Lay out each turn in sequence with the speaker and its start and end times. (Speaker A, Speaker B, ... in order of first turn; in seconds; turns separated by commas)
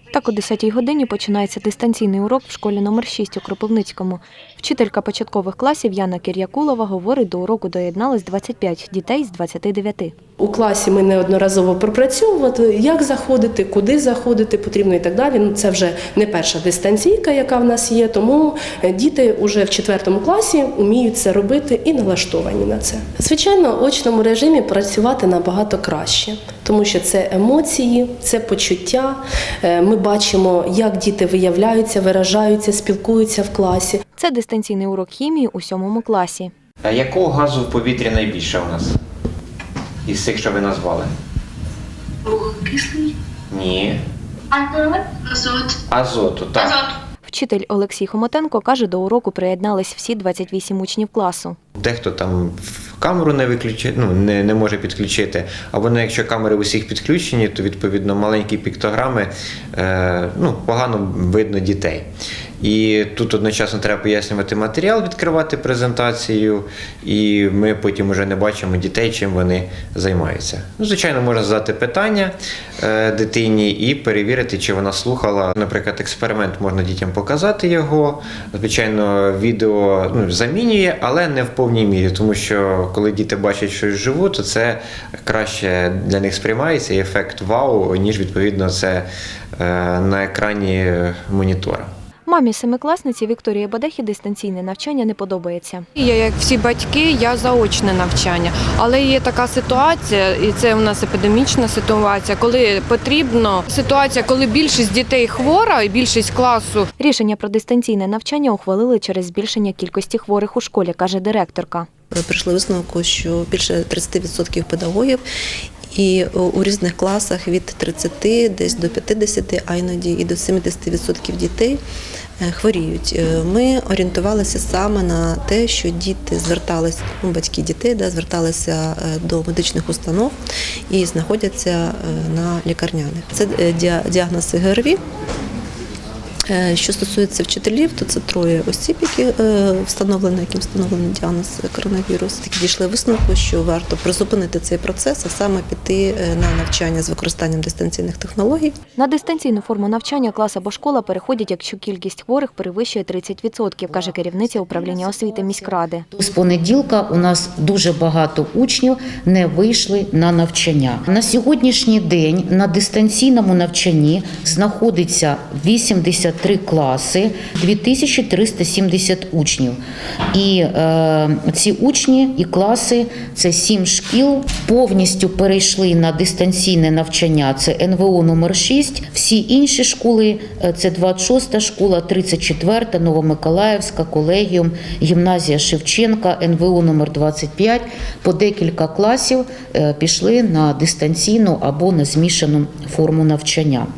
Speaker A: 0.1-10.1, Speaker B: 10.4-34.0, Speaker A: 34.1-36.5, Speaker C: 36.8-39.0, Speaker C: 40.0-41.1, Speaker C: 43.5-44.0, Speaker C: 45.9-46.8, Speaker A: 47.2-51.6, Speaker C: 51.8-62.1, Speaker C: 62.6-89.1, Speaker C: 89.6-91.9, Speaker A: 92.2-95.8, Speaker D: 96.0-106.9, Speaker A: 107.0-111.9, Speaker E: 112.1-115.2, Speaker E: 115.9-121.8, Speaker E: 122.4-130.3, Speaker E: 130.9-135.0, Speaker E: 136.5-148.7, Speaker A: 149.0-156.1, Speaker F: 154.1-169.8, Speaker F: 170.3-193.9